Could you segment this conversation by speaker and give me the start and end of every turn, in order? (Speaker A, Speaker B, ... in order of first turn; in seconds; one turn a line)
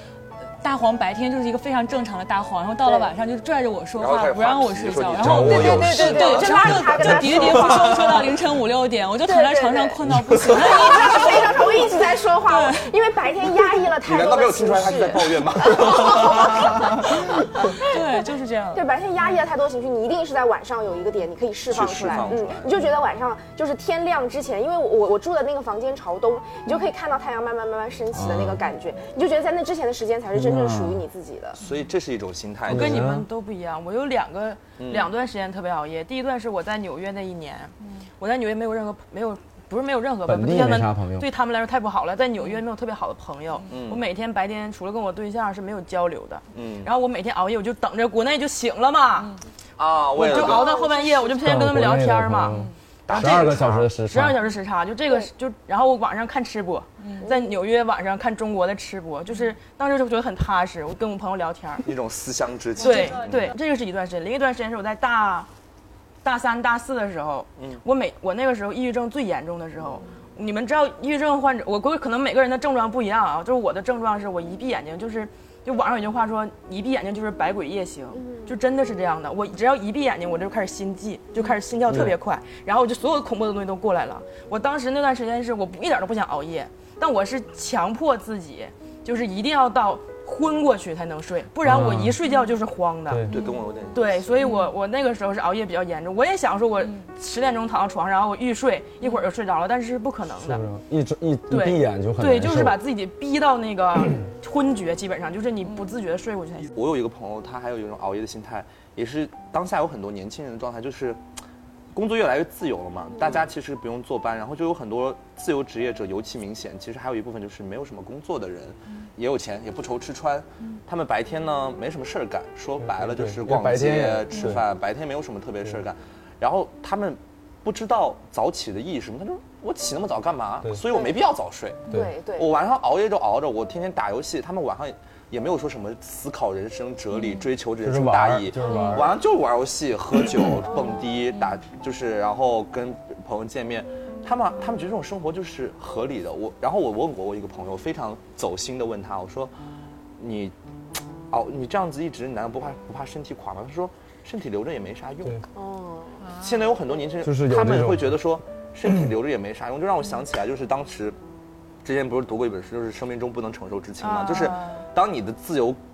Speaker A: 0.6-11.9
Speaker B: 2.8-3.1
Speaker C: 4.0-7.3
Speaker D: 5.2-6.0
Speaker B: 5.4-8.3
Speaker B: 9.2-18.0
Speaker D: 10.1-10.4
Speaker A: 12.4-12.9
Speaker C: 14.0-17.1
Speaker A: 17.7-18.8
Speaker B: 18.7-31.6
Speaker C: 21.7-22.8
Speaker D: 28.1-28.6
Speaker D: 30.3-31.0
Speaker C: 31.6-33.1
Speaker D: 32.7-33.3
Speaker E: 32.7-49.4
Speaker C: 34.8-35.1
Speaker D: 40.2-41.3
Speaker C: 43.7-44.0
Speaker C: 46.5-46.9
Speaker C: 49.8-50.8
Speaker E: 50.1-61.9
Speaker B: 50.3-51.1
Speaker D: 51.4-54.4
Speaker C: 53.1-53.9
Speaker A: 57.0-57.3
Speaker C: 61.8-63.5
Speaker E: 62.8-65.5
Speaker A: 62.9-63.4
Speaker E: 66.2-93.4
Speaker D: 81.9-82.2
Speaker D: 91.6-92.2
Speaker C: 93.3-94.5
Speaker E: 93.9-100.6
Speaker A: 94.4-94.7
Speaker D: 100.4-102.8
Speaker E: 101.5-106.7
Speaker C: 106.7-111.2
Speaker C: 111.9-149.5
Speaker D: 122.9-124.6
Speaker B: 131.9-132.6
Speaker D: 137.8-139.2
Speaker C: 150.2-150.5
Speaker C: 151.3-155.4
Speaker B: 155.5-156.2
Speaker A: 156.2-156.5
Speaker C: 156.4-161.2
Speaker D: 157.2-158.2
Speaker C: 161.8-165.8
Speaker E: 164.0-164.8